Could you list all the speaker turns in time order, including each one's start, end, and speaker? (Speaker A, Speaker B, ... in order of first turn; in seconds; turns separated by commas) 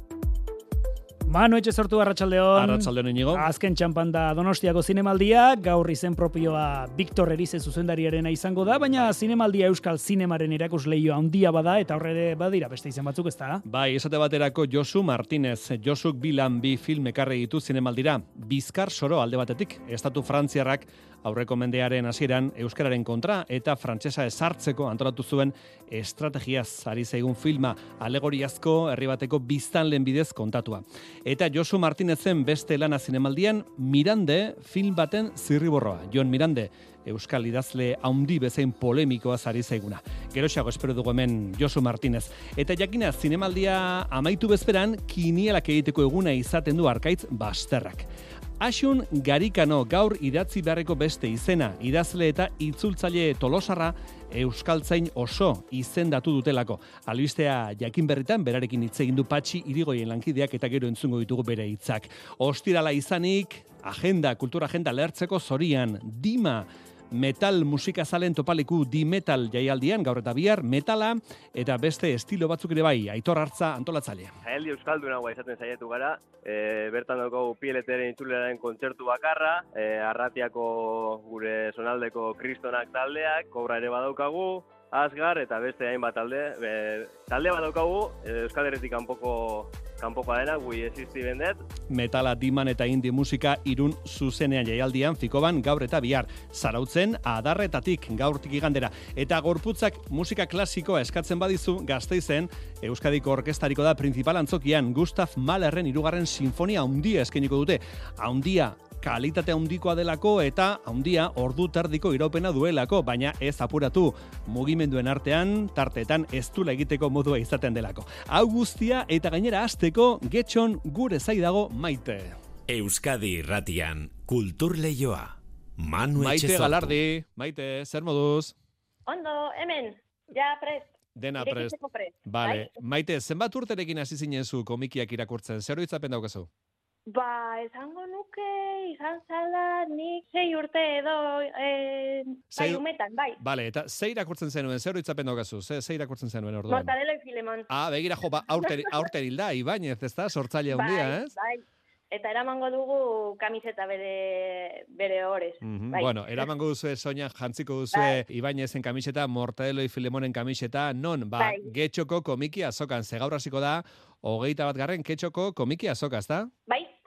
Speaker A: 1.3-13.6, Speaker B: 2.5-3.5, Speaker B: 13.7-48.1, Speaker B: 48.6-74.3, Speaker C: 74.5-91.6, Speaker B: 91.9-122.4, Speaker D: 122.7-127.0, Speaker B: 126.2-128.5, Speaker E: 129.1-132.7, Speaker B: 131.2-136.5, Speaker E: 137.1-143.4, Speaker B: 142.6-142.8, Speaker B: 143.4-146.9, Speaker E: 146.7-147.7, Speaker B: 147.7-151.3, Speaker E: 148.5-149.1, Speaker E: 150.7-156.5, Speaker B: 155.6-166.5, Speaker E: 157.9-158.2, Speaker E: 161.4-161.7, Speaker E: 166.7-166.9